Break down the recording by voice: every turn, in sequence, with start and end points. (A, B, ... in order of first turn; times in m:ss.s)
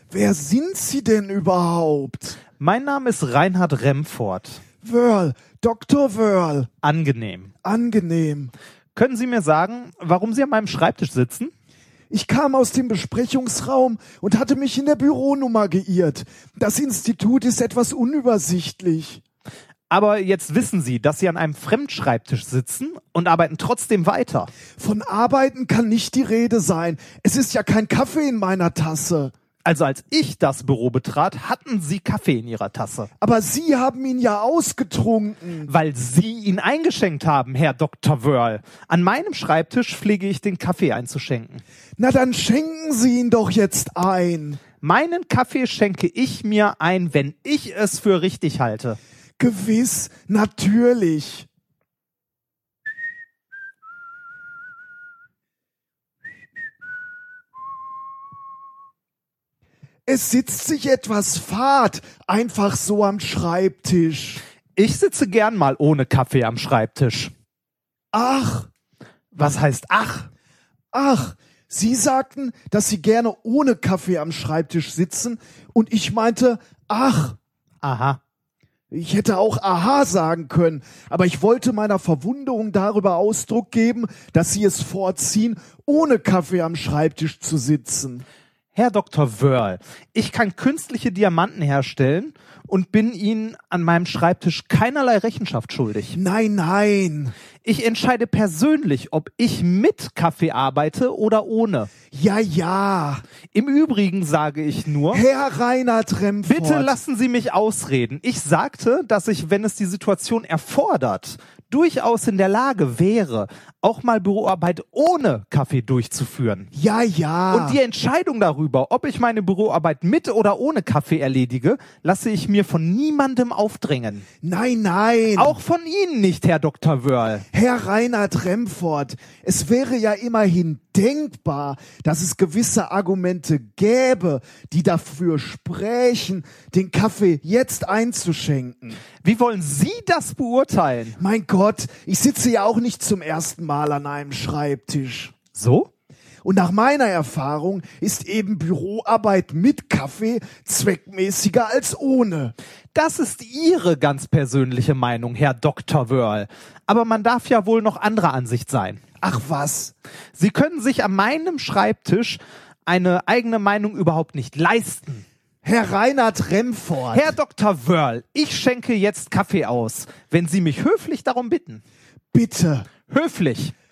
0:00.1-0:02.4 A
0:02.6-0:04.6 B
0:04.8-0:06.7 A
0:06.8-0:07.5 B
0:07.6-0:08.5 A
0:09.0-0:11.5 B
0:12.1-0:19.2 A
0:19.9-0:24.5 B
0:24.8-0:29.3 A
0:29.6-0:33.1 B
0:33.2-0:35.7 A
0:35.7-0:41.6 B
0:42.0-0:44.6 A
0:44.8-0:49.0 B
0:49.4-0:51.5 A
1:00.1-1:04.4 A
1:04.8-1:07.3 B
1:08.1-1:08.7 A
1:09.3-1:10.3 B
1:10.9-1:17.4 A
1:17.8-1:18.2 B
1:18.9-1:28.2 A
1:28.7-1:36.2 B
1:36.1-1:37.3 A
1:37.6-1:41.9 B
1:42.1-1:43.2 A
1:43.5-1:45.2 B
1:45.1-1:47.0 A
1:46.5-1:56.7 B
1:56.7-1:57.8 A
1:57.5-2:04.3 B
2:04.4-2:05.6 A
2:05.4-2:07.4 B
2:07.5-2:19.0 A
2:19.2-2:21.2 B
2:21.2-2:25.3 A
2:25.5-2:25.9 B
2:26.4-2:32.5 A
2:32.9-2:39.0 B
2:39.2-2:39.9 A
2:40.4-2:45.2 B
2:45.6-2:47.3 A
2:47.1-2:51.8 B
2:52.3-2:52.9 A
2:53.1-2:53.7 B